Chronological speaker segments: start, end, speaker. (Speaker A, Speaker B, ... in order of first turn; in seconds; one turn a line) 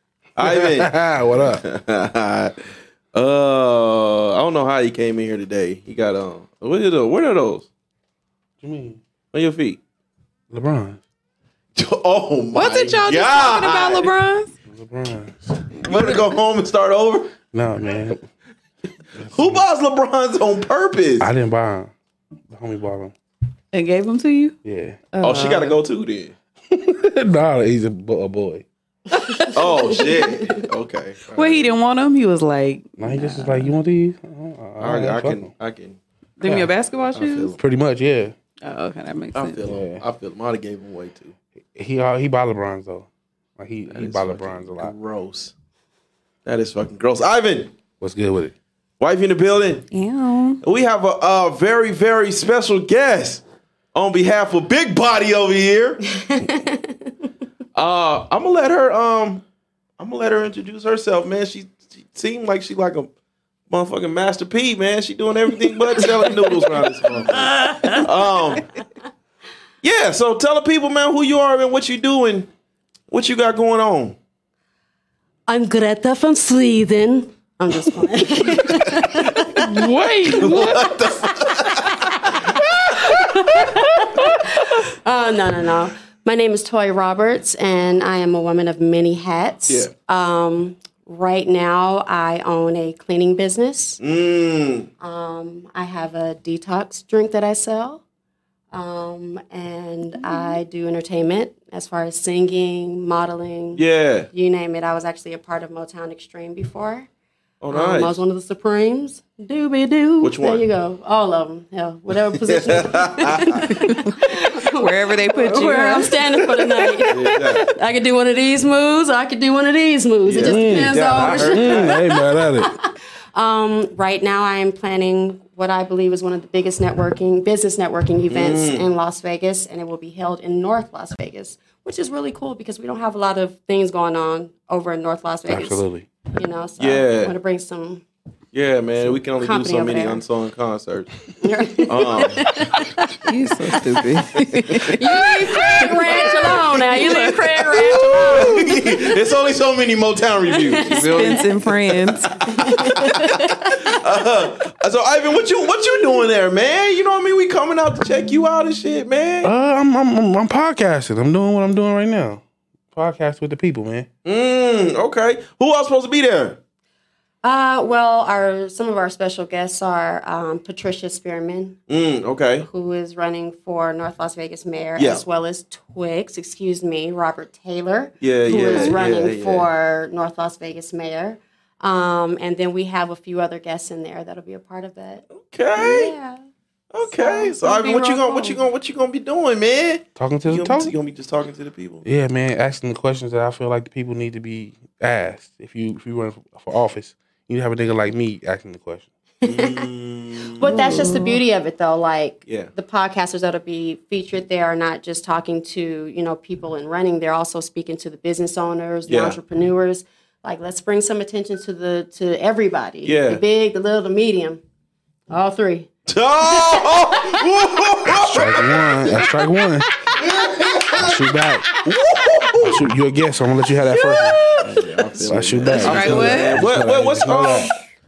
Speaker A: 0.3-2.6
Speaker B: 0.4-1.6
Speaker A: 3.1-7.7
Speaker B: 8.6-9.0
Speaker A: 9.3-9.8
Speaker B: 10.5-11.0
Speaker A: 11.8-14.1
Speaker C: 12.5-14.5
Speaker B: 14.7-15.6
Speaker A: 15.8-17.3
Speaker B: 17.5-18.2
Speaker B: 19.2-19.6
Speaker A: 19.2-21.3
Speaker B: 21.2-21.9
Speaker B: 22.5-23.1
Speaker C: 23.7-24.6
Speaker B: 24.6-25.0
Speaker C: 25.1-25.8
Speaker A: 25.2-26.3
Speaker B: 26.7-28.6
Speaker D: 29.2-30.3
Speaker A: 29.5-31.7
Speaker C: 31.3-33.7
Speaker B: 33.0-35.5
Speaker A: 34.8-36.0
Speaker C: 36.4-37.6
Speaker B: 36.4-36.7
Speaker A: 37.1-37.6
Speaker B: 37.5-38.3
Speaker C: 38.6-39.6
Speaker A: 39.3-41.3
Speaker B: 39.6-40.0
Speaker B: 41.7-44.9
Speaker A: 43.9-45.5
Speaker A: 46.4-47.7
Speaker B: 48.0-48.5
Speaker A: 49.0-49.9
Speaker C: 49.9-50.6
Speaker A: 50.6-53.4
Speaker A: 53.9-56.0
Speaker D: 56.3-56.9
Speaker A: 57.7-59.4
Speaker A: 60.0-63.1
Speaker A: 63.7-68.7
Speaker D: 67.6-68.0
Speaker A: 69.8-72.5
Speaker A: 73.1-74.2
Speaker D: 75.5-79.8
Speaker B: 79.5-80.9
Speaker A: 80.3-83.4
Speaker D: 80.3-94.0
Speaker A: 89.7-89.9
Speaker A: 94.0-94.9
Speaker D: 95.0-98.0
Speaker D: 98.7-107.1
Speaker A: 103.7-104.3
Speaker A: 107.6-108.2
Speaker D: 107.7-135.8
Speaker A: 110.2-110.6
Speaker A: 112.4-113.8
Speaker C: 114.7-116.4
Speaker A: 117.0-117.7
Speaker A: 120.2-122.0
Speaker B: 120.4-122.7
Speaker A: 128.3-128.9
Speaker B: 135.5-136.1
Speaker D: 136.3-138.0
Speaker A: 136.8-137.3
Speaker A: 138.5-141.1
Speaker D: 139.4-140.2
Speaker D: 141.4-143.2
Speaker A: 141.7-142.7
Speaker C: 143.2-145.8
Speaker D: 144.7-149.0
Speaker A: 145.5-147.0
Speaker C: 146.9-147.2
Speaker A: 147.6-159.5
Speaker B: 147.8-148.7
Speaker D: 150.6-151.4
Speaker C: 150.9-152.3
Speaker D: 152.5-153.9
Speaker B: 159.4-162.4
Speaker B: 162.9-164.1
Speaker A: 164.2-166.6
Speaker D: 167.4-171.8
Speaker A: 171.9-172.7
Speaker D: 172.7-185.2
Speaker A: 174.9-175.2
Speaker A: 178.2-179.7
Speaker C: 178.7-179.0
Speaker A: 185.3-186.1
Speaker D: 185.8-186.4
Speaker A: 186.9-192.0
Speaker D: 187.1-188.6
Speaker B: 190.2-190.9
Speaker B: 192.0-199.1
Speaker A: 199.4-201.1
Speaker D: 199.4-199.8
Speaker D: 200.5-214.6
Speaker C: 200.7-201.4
Speaker A: 202.5-202.7
Speaker A: 209.1-209.4
Speaker A: 213.0-213.4
Speaker D: 215.3-215.9
Speaker A: 216.1-219.2
Speaker D: 216.4-217.4
Speaker B: 218.2-219.9
Speaker D: 220.1-221.2
Speaker A: 220.2-221.3
Speaker B: 221.0-221.7
Speaker A: 221.8-222.9
Speaker B: 222.6-224.4
Speaker D: 223.9-224.8
Speaker A: 224.6-227.8
Speaker B: 225.2-227.7
Speaker C: 225.7-226.7